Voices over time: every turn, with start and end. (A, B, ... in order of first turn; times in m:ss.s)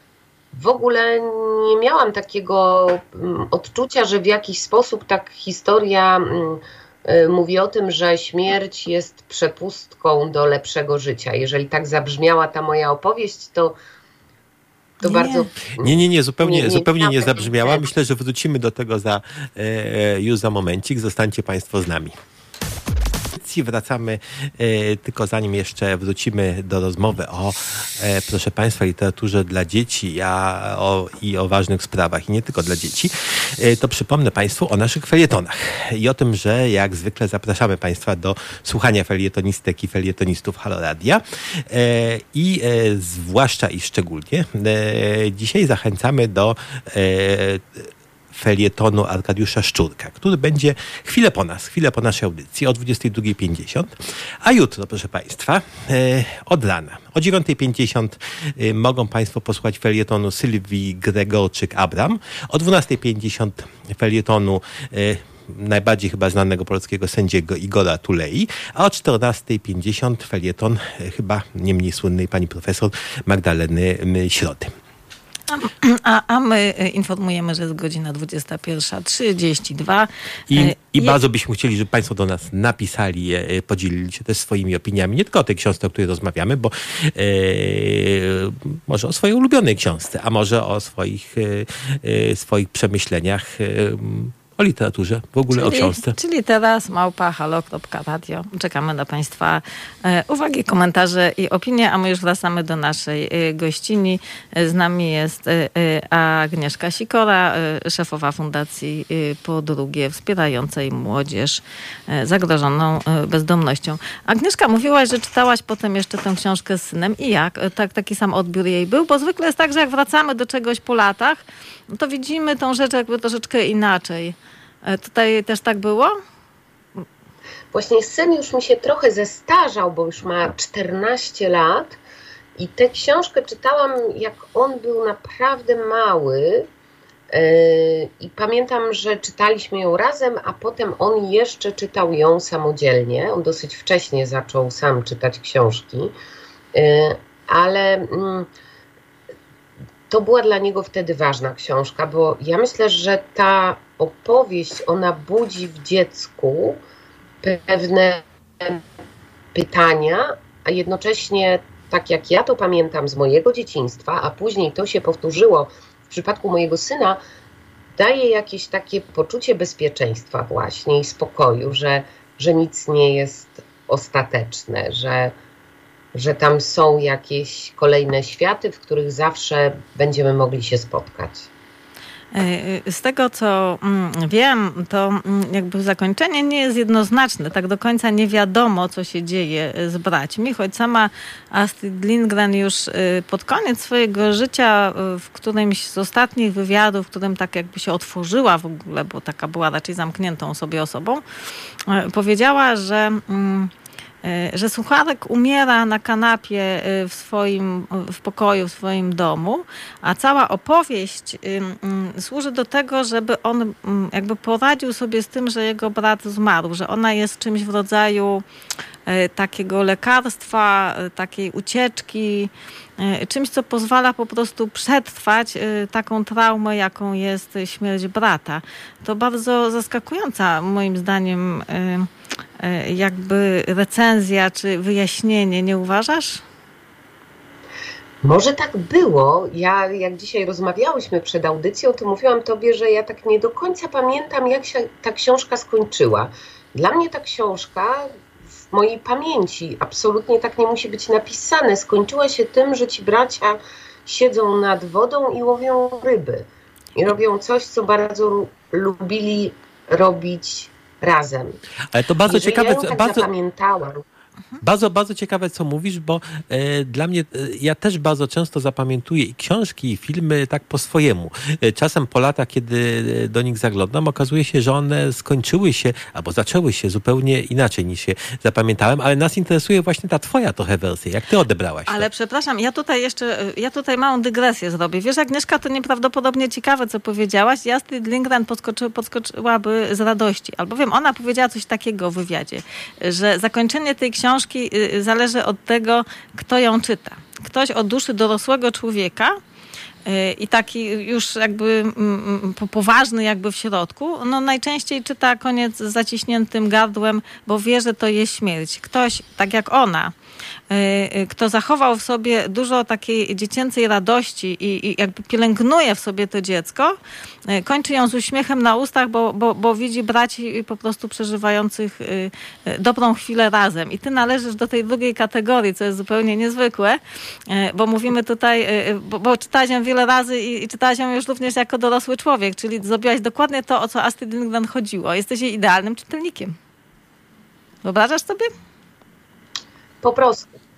0:00.5-0:13.8 A
0:15.0-0:17.9 A
0:15.0-0:15.5 B
0:15.8-0:22.1 C
0:23.3-1:14.7 C
1:15.5-1:21.2 B
1:20.5-1:36.2 C
1:35.5-2:06.2 B
2:07.7-2:12.0 A
2:12.6-2:16.7 A
2:17.3-2:26.1 A
2:26.8-2:28.5 A
2:30.1-2:36.8 A
2:37.4-2:38.8 A
2:39.5-2:47.2 A
2:48.0-2:55.3 A
2:56.1-3:01.5 A
3:02.3-3:21.2 B
3:21.9-3:23.7 B
3:24.2-3:38.4 B
3:39.1-3:56.4 B
3:58.2-4:08.1 A
4:08.7-4:21.6 A
4:21.9-4:23.3 C
4:22.3-4:24.0 A
4:24.6-4:42.1 C
4:41.9-4:59.4 B
5:00.0-5:10.1 B
5:10.7-5:36.6 B
5:37.8-5:38.5 B
5:40.0-5:40.5 A